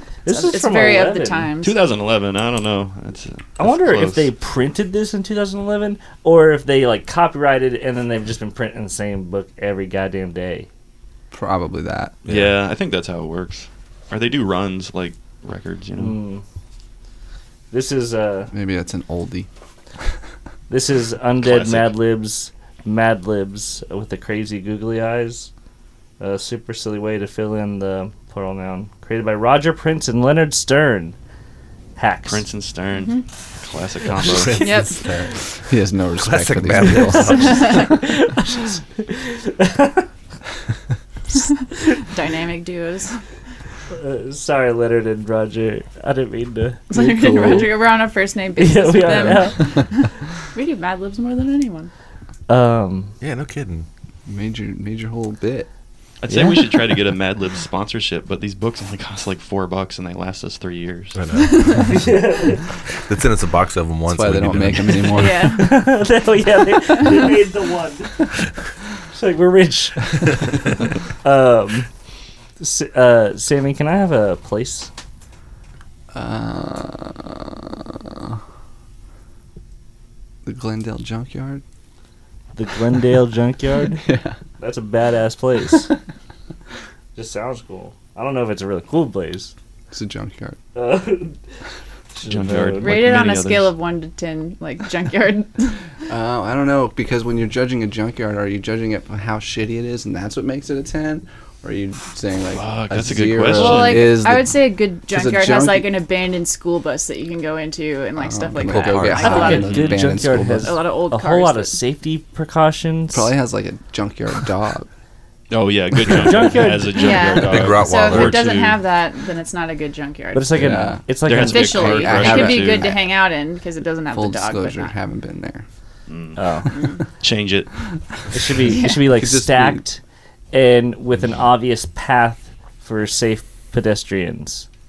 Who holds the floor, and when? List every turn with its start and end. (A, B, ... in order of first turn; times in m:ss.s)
0:00.2-0:01.5 A
0:00.3-0:01.8 B
0:01.6-0:04.3 C
0:03.6-0:10.7 A
0:11.3-0:12.2 D
0:12.2-0:16.2 C
0:12.3-0:12.5 E
0:16.0-0:16.4 A
0:17.7-0:18.5 A
0:18.5-0:19.5 D
0:20.7-0:25.5 A
0:21.4-0:22.0 C
0:26.2-0:31.2 A
0:32.0-0:32.5 A
0:32.3-0:34.6 C
0:33.0-0:33.2 B
0:34.2-0:35.0 E
0:34.3-0:37.8 D
0:34.6-0:35.0 B
0:36.2-0:37.9 E
0:37.2-0:40.1 A
0:37.4-0:37.8 B
0:42.1-0:43.2 B
0:43.9-0:46.8 A
0:46.9-0:51.9 B
0:46.9-0:47.7 D
0:48.6-0:49.6 A
0:49.2-0:49.5 D
0:52.5-0:53.2 A
0:53.2-0:53.9 E
0:54.3-0:55.7 D
0:56.2-1:01.2 C
0:56.3-0:56.9 A
1:01.2-1:02.1 E
1:01.4-1:01.8 B
1:01.8-1:02.7 A
1:03.1-1:05.1 E
1:04.1-1:05.6 D
1:05.1-1:05.8 B
1:05.2-1:08.3 A
1:09.1-1:10.5 A
1:11.2-1:11.9 A
1:12.6-1:14.9 A
1:16.1-1:18.4 D
1:20.4-1:21.6 D
1:22.6-1:24.1 A
1:24.0-1:24.4 D
1:24.6-1:25.9 A
1:27.2-1:29.5 A
1:29.9-1:30.6 D
1:30.8-1:31.4 A
1:32.2-1:33.0 A
1:32.2-1:33.7 C
1:32.8-1:35.8 B
1:36.1-1:46.0 D
1:42.5-1:44.2 C
1:43.5-1:49.8 B
1:48.2-1:50.8 D
1:49.1-1:53.3 A
1:49.6-1:49.9 C
1:50.6-1:51.8 B
1:53.1-1:54.9 D
1:55.5-1:58.7 C
1:56.0-1:57.3 A
1:56.9-2:00.7 B
1:57.5-1:58.8 E
2:00.3-2:02.4 A
2:00.5-2:01.0 D
2:01.2-2:02.9 C
2:01.3-2:04.9 B
2:02.0-2:03.0 D
2:04.1-2:05.6 D
2:06.1-2:06.4 C
2:06.4-2:06.9 A
2:07.2-2:07.7 C
2:08.3-2:10.0 A
2:08.7-2:09.0 B
2:08.9-2:09.8 D
2:10.5-2:14.7 A